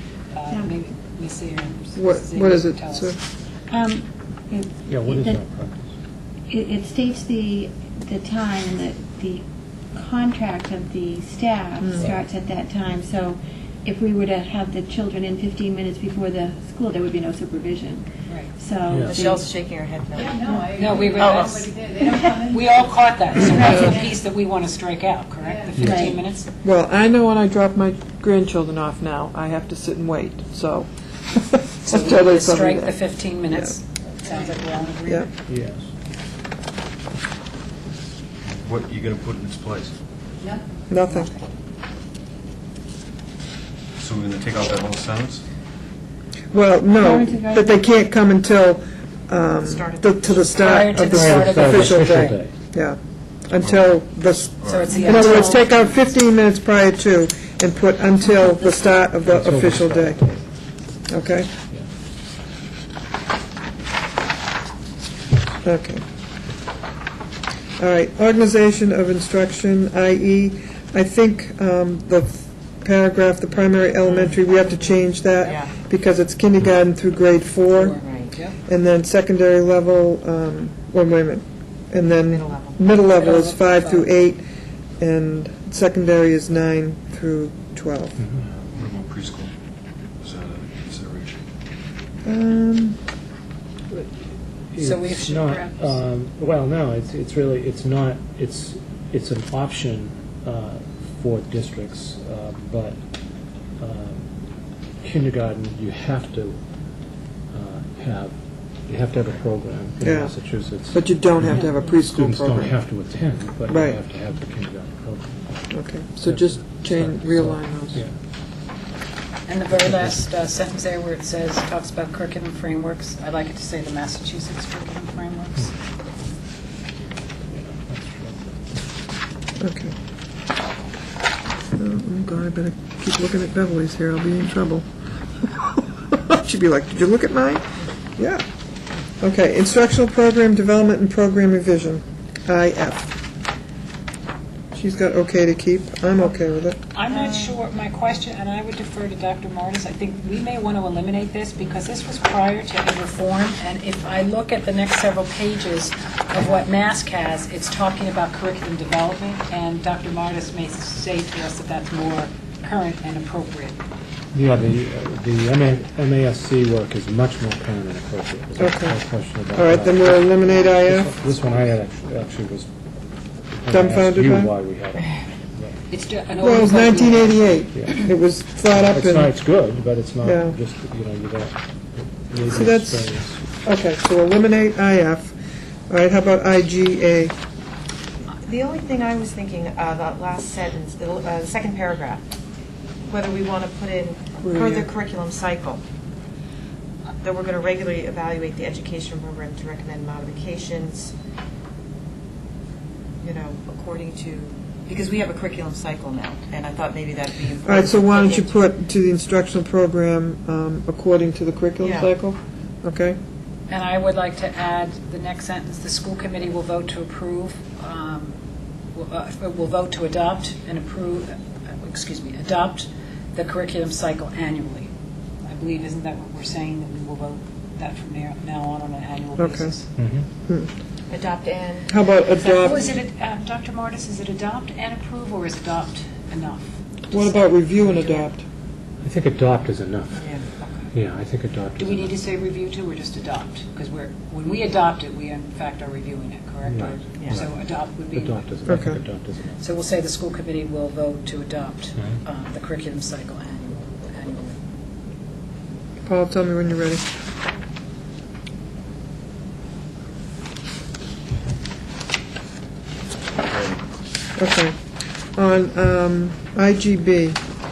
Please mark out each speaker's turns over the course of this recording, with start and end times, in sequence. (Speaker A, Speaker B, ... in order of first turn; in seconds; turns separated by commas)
Speaker A: 0.3-3.1, Speaker B: 0.5-0.7, Speaker C: 1.9-3.2, Speaker B: 3.7-5.4, Speaker D: 4.9-5.8, Speaker B: 6.5-18.1, Speaker B: 18.6-19.5, Speaker D: 18.9-19.2, Speaker E: 19.0-20.5, Speaker A: 20.7-26.5, Speaker E: 21.2-21.7, Speaker B: 22.0-22.5, Speaker D: 25.7-26.1, Speaker B: 25.8-26.1, Speaker C: 26.6-33.7, Speaker A: 31.8-35.3, Speaker D: 35.5-35.8, Speaker F: 38.4-40.0, Speaker C: 40.9-41.3, Speaker F: 44.0-45.4, Speaker C: 46.5-53.0, Speaker B: 46.9-47.7, Speaker E: 49.6-50.9, Speaker A: 50.6-52.4, Speaker D: 50.9-52.5, Speaker C: 53.5-60.2, Speaker F: 53.6-55.3, Speaker A: 54.7-56.0, Speaker B: 54.9-55.4, Speaker D: 59.2-60.4, Speaker C: 61.1-61.5, Speaker C: 65.6-66.0, Speaker C: 67.8-78.0, Speaker E: 74.1-74.4, Speaker E: 75.4-75.7, Speaker A: 77.8-78.5, Speaker E: 77.9-78.3, Speaker C: 78.7-84.4, Speaker E: 82.2-82.8, Speaker A: 83.1-84.1, Speaker C: 85.0-88.2, Speaker F: 88.4-89.5, Speaker F: 90.2-91.3, Speaker C: 92.2-93.0, Speaker D: 94.7-103.0, Speaker A: 94.8-95.9, Speaker D: 103.8-104.2, Speaker D: 105.0-106.6, Speaker D: 107.5-108.3, Speaker D: 108.8-115.7, Speaker C: 110.0-112.8, Speaker C: 113.7-114.0, Speaker C: 115.7-118.0, Speaker D: 116.2-118.1, Speaker A: 119.5-125.7, Speaker D: 119.7-120.2, Speaker D: 127.5-128.5, Speaker C: 129.6-129.9, Speaker C: 131.8-134.8, Speaker C: 135.4-138.4, Speaker C: 139.2-143.1, Speaker C: 144.7-146.8, Speaker A: 146.9-163.8, Speaker D: 164.3-172.7, Speaker C: 168.6-171.2, Speaker D: 173.6-175.8, Speaker C: 173.7-174.5, Speaker A: 175.9-177.5, Speaker C: 176.4-179.3, Speaker D: 177.8-178.1, Speaker D: 178.7-183.4, Speaker C: 180.2-180.6, Speaker C: 182.5-183.0, Speaker C: 183.6-185.3, Speaker C: 185.9-187.3, Speaker E: 188.3-192.3, Speaker E: 193.0-195.8, Speaker C: 194.4-194.9, Speaker E: 197.2-201.1, Speaker E: 203.2-208.5, Speaker C: 207.6-213.2, Speaker E: 211.8-212.1, Speaker A: 213.7-218.4, Speaker A: 218.9-224.9, Speaker A: 225.4-229.9, Speaker C: 229.4-229.7, Speaker D: 229.9-230.3, Speaker E: 231.1-231.9, Speaker C: 231.9-232.9, Speaker A: 232.4-238.3, Speaker C: 237.1-238.4, Speaker D: 239.0-240.4, Speaker E: 240.1-240.9, Speaker D: 240.9-242.2, Speaker A: 241.8-248.4, Speaker D: 246.6-247.5, Speaker E: 246.8-247.4, Speaker D: 248.1-249.6, Speaker C: 248.7-249.0, Speaker A: 249.6-254.6, Speaker C: 256.1-257.0, Speaker F: 263.3-263.8, Speaker C: 264.4-264.8, Speaker C: 265.3-267.4